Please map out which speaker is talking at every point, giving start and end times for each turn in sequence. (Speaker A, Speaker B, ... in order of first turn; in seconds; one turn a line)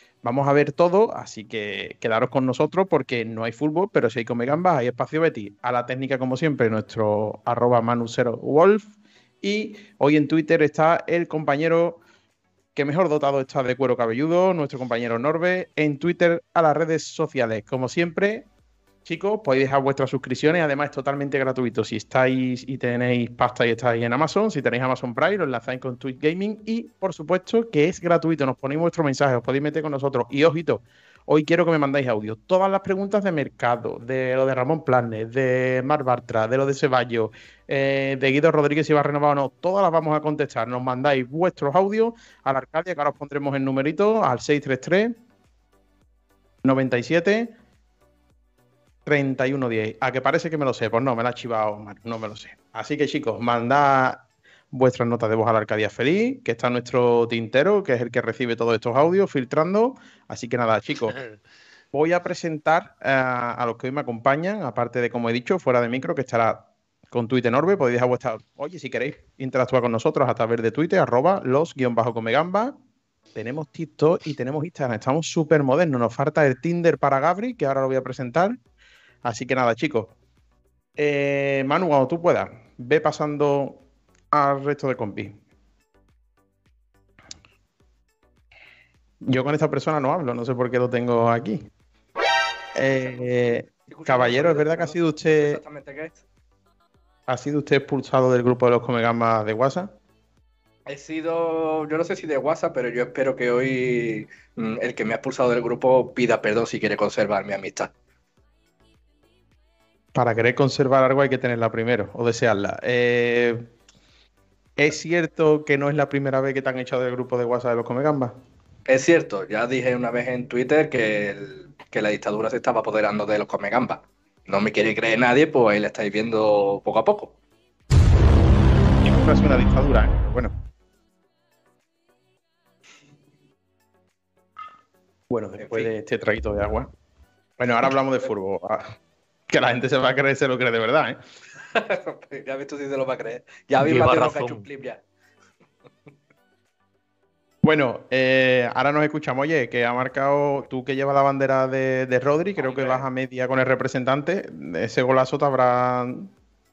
Speaker A: 0.2-12.0
Speaker A: 12.8-18.5
Speaker A: 19.1-45.2
Speaker A: 46.6-47.5
Speaker A: 49.1-61.2
Speaker A: 61.9-72.8
Speaker A: 73.3-78.6
Speaker A: 79.2-80.1
Speaker A: 81.0-83.8
Speaker A: 84.3-85.4
Speaker A: 89.2-91.7
Speaker A: 92.8-95.6
Speaker B: 93.0-96.2
Speaker A: 97.3-99.9
Speaker B: 100.9-107.9
Speaker A: 110.1-113.7
Speaker A: 114.8-118.4
Speaker B: 118.9-127.3
Speaker A: 129.0-130.5
Speaker A: 135.3-136.9
Speaker B: 135.6-135.9
Speaker A: 137.6-138.9
Speaker A: 139.5-141.2
Speaker B: 141.6-145.0
Speaker A: 143.8-144.4
Speaker A: 147.6-156.3
Speaker B: 152.6-153.1